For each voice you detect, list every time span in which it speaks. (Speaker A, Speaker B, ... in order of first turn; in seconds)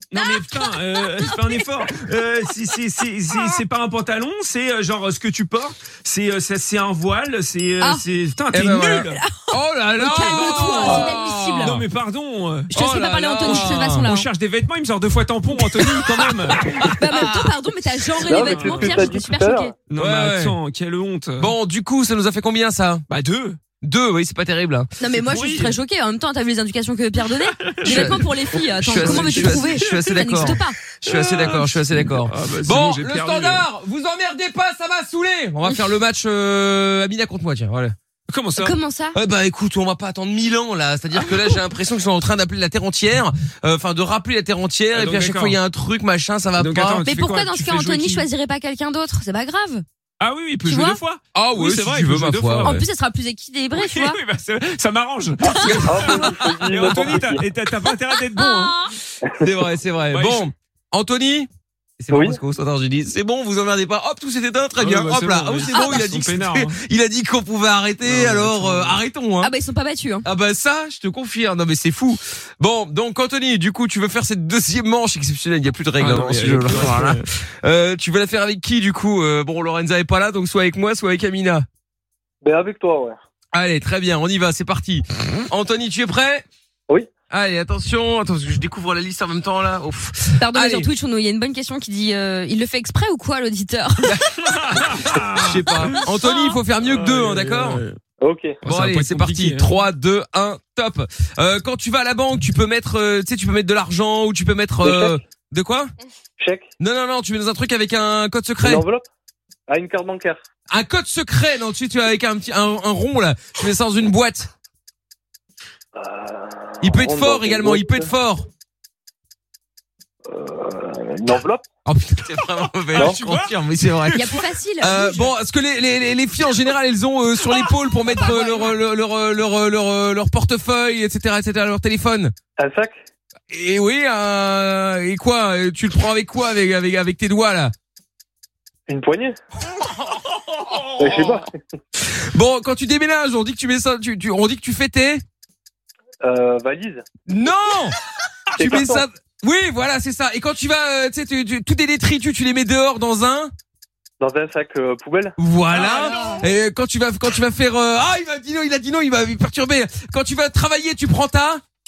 Speaker A: 0.1-9.2, 10.2-16.8, 18.3-19.1, 19.9-21.5, 23.1-23.6, 25.2-25.8, 27.4-33.6, 38.3-38.7, 44.9-45.6, 46.6-48.3, 50.2-52.8, 53.7-58.8, 60.1-60.4, 64.8-66.8, 68.0-69.0, 76.0-77.2, 94.3-96.1, 96.8-98.0, 98.6-99.7, 122.8-124.4, 125.0-125.3, 140.2-141.4, 155.7-156.4
Speaker B: 8.5-11.8, 12.8-14.1, 16.4-17.4, 20.0-20.6, 21.4-23.1, 23.8-24.9, 27.8-28.3, 28.8-37.9, 39.1-47.0, 51.3-52.8, 55.6-57.0, 59.4-69.5, 70.2-81.7, 83.5-86.4, 87.3-90.9, 94.0-97.8, 98.6-105.9, 106.8-108.8, 110.7-114.5, 116.8-118.5, 121.8-132.3, 133.5-137.7, 142.0-145.2, 147.3-148.0, 148.6-153.5, 155.4-161.6
Speaker C: 9.1-11.8, 12.7-14.3, 16.8-19.7, 25.0-30.8, 38.6-39.1, 47.0-49.8, 50.6-51.0, 52.5-54.2, 58.3-59.0, 65.7-66.0, 69.4-70.2, 90.4-94.1, 96.3-96.6, 124.1-125.0, 128.2-128.7
Speaker D: 18.2-19.7, 55.8-57.4, 59.2-59.5, 62.1-62.4, 82.4-83.2, 98.2-98.6, 104.8-105.2, 106.4-106.7, 108.6-109.0, 109.7-110.4, 116.0-118.1, 120.3-121.6, 132.6-132.9, 138.9-139.3, 141.0-141.6, 146.2-147.0, 148.6-149.0, 154.2-155.3